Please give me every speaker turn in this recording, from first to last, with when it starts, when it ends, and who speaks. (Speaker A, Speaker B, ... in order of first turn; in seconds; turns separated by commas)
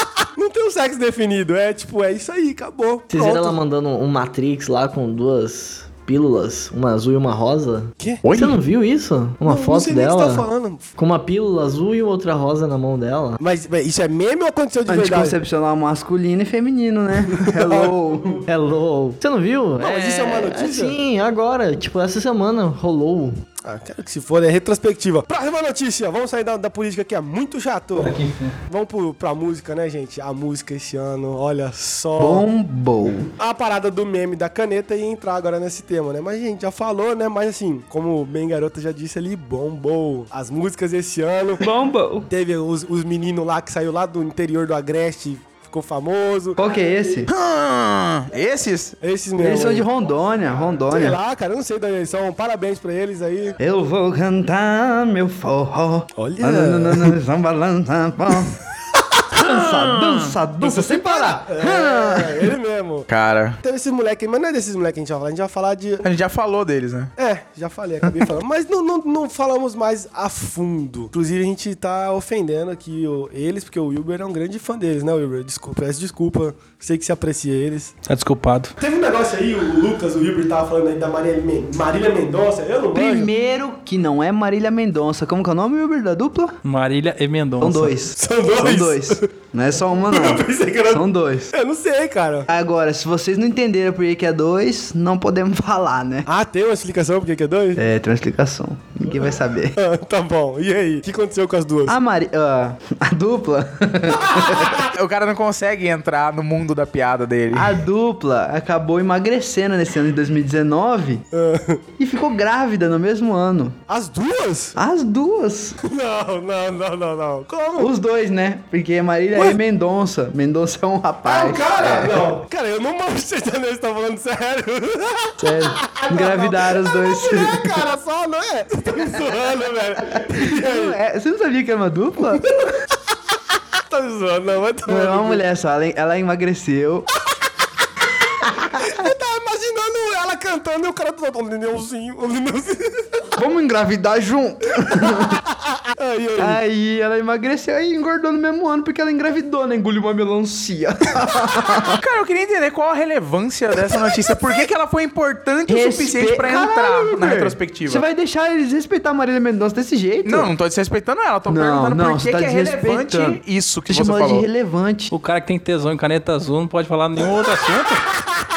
Speaker A: 0.4-3.6, Speaker B: 3.1-13.4, Speaker C: 8.2-8.6, Speaker A: 9.4-10.9, Speaker A: 13.4-15.4, Speaker D: 14.9-18.4, Speaker A: 17.3-18.2, Speaker B: 18.5-23.4, Speaker A: 19.8-21.0, Speaker A: 23.6-32.5, Speaker E: 28.0-28.6, Speaker D: 32.2-33.3, Speaker A: 33.4-41.6, Speaker D: 41.6-42.3, Speaker A: 42.3-46.6, Speaker D: 46.6-47.3, Speaker C: 47.3-49.0, Speaker A: 49.0-49.9, Speaker D: 49.4-51.2, Speaker A: 50.9-53.5, Speaker D: 53.6-58.6, Speaker A: 56.2-57.2, Speaker D: 59.3-62.5, Speaker E: 59.6-60.1, Speaker A: 60.6-63.1, Speaker C: 63.1-63.6, Speaker A: 63.6-66.1, Speaker C: 66.0-67.1, Speaker A: 67.2-78.0, Speaker E: 78.1-78.8, Speaker A: 78.8-83.3, Speaker D: 82.9-86.6, Speaker E: 86.6-88.0, Speaker D: 87.6-91.5, Speaker A: 88.1-89.2, Speaker A: 90.0-92.5, Speaker D: 92.5-96.3, Speaker A: 96.3-97.8, Speaker D: 97.8-99.8, Speaker A: 99.7-102.0, Speaker D: 101.9-104.8, Speaker A: 104.5-104.8, Speaker C: 104.9-107.8, Speaker D: 107.5-111.2, Speaker A: 111.3-111.8, Speaker D: 112.0-113.8, Speaker A: 113.9-114.8, Speaker D: 114.8-115.8, Speaker A: 115.8-117.9, Speaker D: 117.8-122.3, Speaker A: 121.3-131.0, Speaker D: 125.4-127.9, Speaker D: 128.9-132.7, Speaker A: 133.9-135.4, Speaker D: 134.9-137.1, Speaker A: 138.4-143.2, Speaker D: 138.5-139.1, Speaker D: 143.4-145.4, Speaker A: 145.0-146.6, Speaker D: 146.4-152.0, Speaker C: 151.9-158.0, Speaker D: 155.7-160.5, Speaker C: 160.2-164.5, Speaker D: 161.5-165.1, Speaker E: 165.1-168.1